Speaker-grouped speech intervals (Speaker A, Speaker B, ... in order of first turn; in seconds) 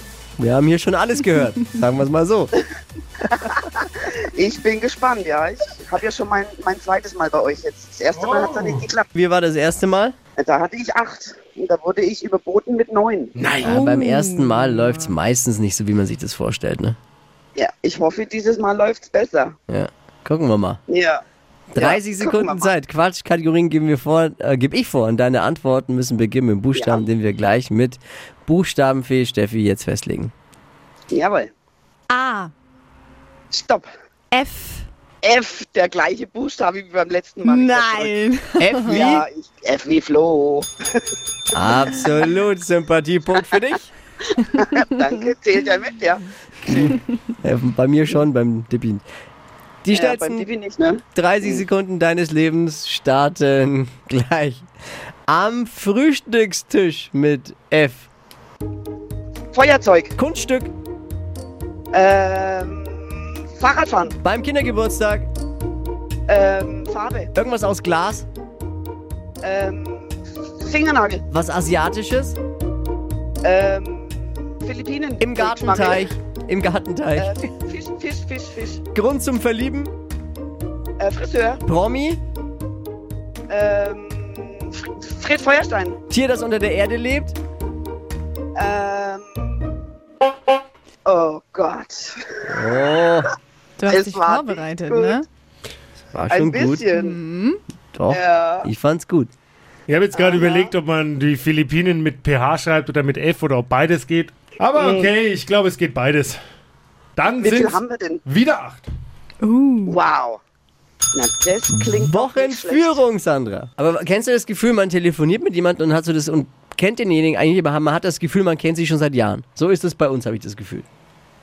Speaker A: 0.4-2.5, 9.1-10.1, 13.6-17.0, 19.7-20.8, 21.7-30.3, 38.6-39.2, 41.5-43.9, 46.7-49.0, 49.8-50.4, 51.1-54.6, 55.3-58.1, 60.1-60.7, 64.2-65.3, 67.3-68.2, 71.3-72.3, 75.2-77.4, 78.9-79.9, 81.7-82.2, 86.1-87.3, 92.5-93.3, 96.1-96.8, 97.9-99.3, 111.7-120.8
Speaker B: 3.2-9.1, 10.4-13.3, 17.5-19.6, 20.9-21.2, 21.8-22.7, 26.7-27.0, 31.1-31.5, 33.5-33.9, 35.2-38.2, 38.9-40.7, 44.4-47.0, 49.9-51.6, 59.5-60.1, 61.9-64.2, 66.3-67.3, 69.4-71.2, 73.4-76.0, 77.2-78.8, 81.0-81.6, 83.5-86.0, 88.5-89.5, 91.0-92.8, 93.9-95.2, 96.3-97.2, 98.1-98.7, 100.1-100.7, 104.8-105.1, 107.4-108.2, 109.8-110.4, 111.1-113.0
Speaker C: 8.1-8.9, 13.3-13.8, 99.9-106.4, 107.2-108.8
Speaker D: 13.6-15.1, 32.1-32.5, 34.3-34.9, 37.4-39.0, 93.8-95.2, 96.9-97.6, 109.4-110.0